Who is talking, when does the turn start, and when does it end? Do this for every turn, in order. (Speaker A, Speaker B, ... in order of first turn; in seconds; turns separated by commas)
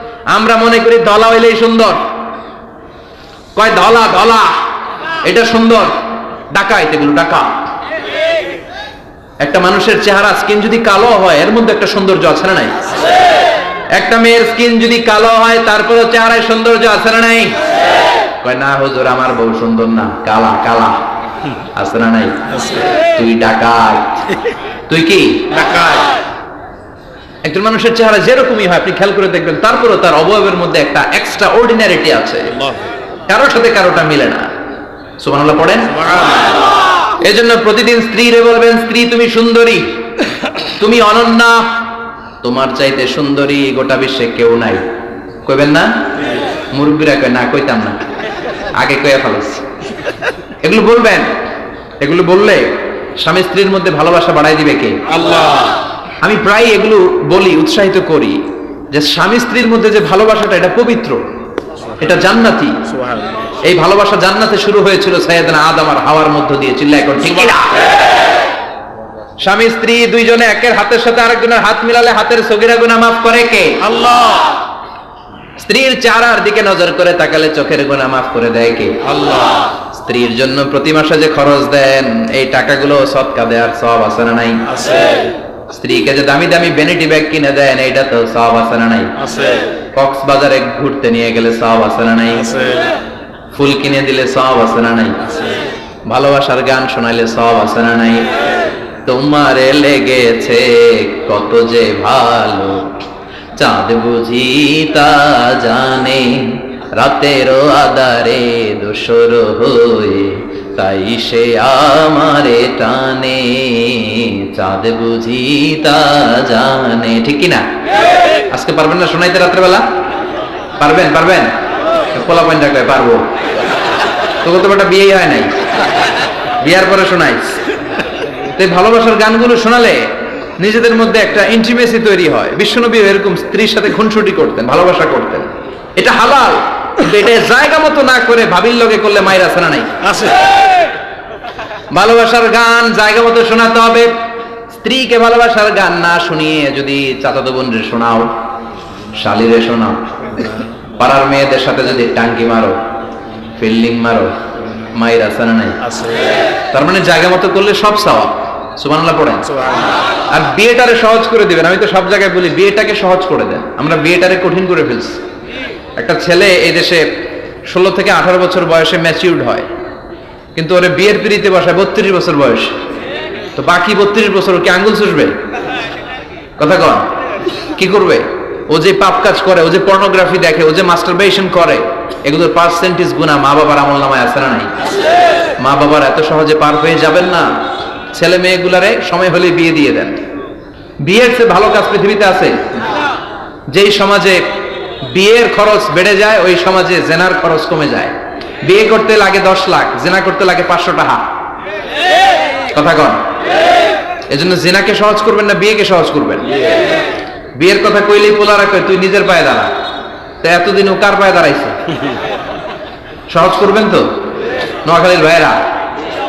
Speaker A: 0.3-2.0, Speaker A: 3.5-4.6, Speaker A: 5.2-5.9, Speaker A: 6.5-7.5, Speaker A: 9.4-12.8, Speaker A: 13.9-17.6, Speaker A: 18.4-21.0, Speaker A: 21.8-24.2, Speaker A: 24.9-25.6, Speaker B: 25.6-26.1, Speaker A: 27.4-32.6, Speaker A: 33.3-34.5, Speaker A: 35.2-36.1, Speaker A: 37.2-39.9, Speaker A: 40.8-41.7, Speaker A: 42.4-44.8, Speaker A: 45.5-45.9, Speaker A: 46.7-48.0, Speaker A: 48.7-49.6, Speaker A: 50.6-51.3, Speaker A: 52.0-55.0, Speaker B: 55.1-55.7, Speaker A: 56.2-61.2, Speaker A: 62.0-62.8, Speaker B: 63.0-63.3, Speaker A: 63.7-67.8, Speaker A: 69.4-73.9, Speaker B: 74.0-74.5, Speaker A: 75.6-79.1, Speaker B: 79.1-79.6, Speaker A: 79.9-84.7, Speaker B: 84.7-85.3, Speaker A: 85.7-89.1, Speaker B: 89.2-89.7, Speaker A: 89.9-92.5, Speaker B: 92.5-92.9, Speaker A: 93.5-95.2, Speaker A: 96.1-98.3, Speaker A: 99.0-102.9, Speaker A: 103.6-117.6, Speaker A: 118.5-119.8, Speaker A: 120.8-121.5, Speaker A: 122.1-123.2, Speaker A: 124.4-125.5, Speaker A: 126.6-127.6, Speaker A: 128.5-130.1, Speaker A: 130.6-139.9, Speaker A: 141.9-144.1, Speaker A: 144.7-148.3, Speaker A: 149.1-150.0, Speaker A: 151.0-152.8, Speaker A: 153.6-154.3, Speaker A: 154.9-155.8, Speaker B: 155.9-156.3, Speaker A: 156.7-159.5, Speaker A: 160.3-165.2, Speaker A: 166.0-167.1, Speaker A: 167.7-169.7, Speaker A: 170.5-172.7, Speaker A: 173.6-175.3, Speaker A: 176.6-177.1, Speaker A: 177.8-184.7, Speaker A: 185.6-187.5, Speaker A: 188.1-190.2, Speaker A: 191.0-192.6, Speaker A: 193.7-194.5, Speaker A: 195.0-201.2, Speaker A: 202.7-203.2, Speaker A: 204.3-206.5, Speaker A: 207.6-209.7, Speaker A: 210.4-211.8, Speaker A: 213.3-214.1, Speaker A: 214.8-215.6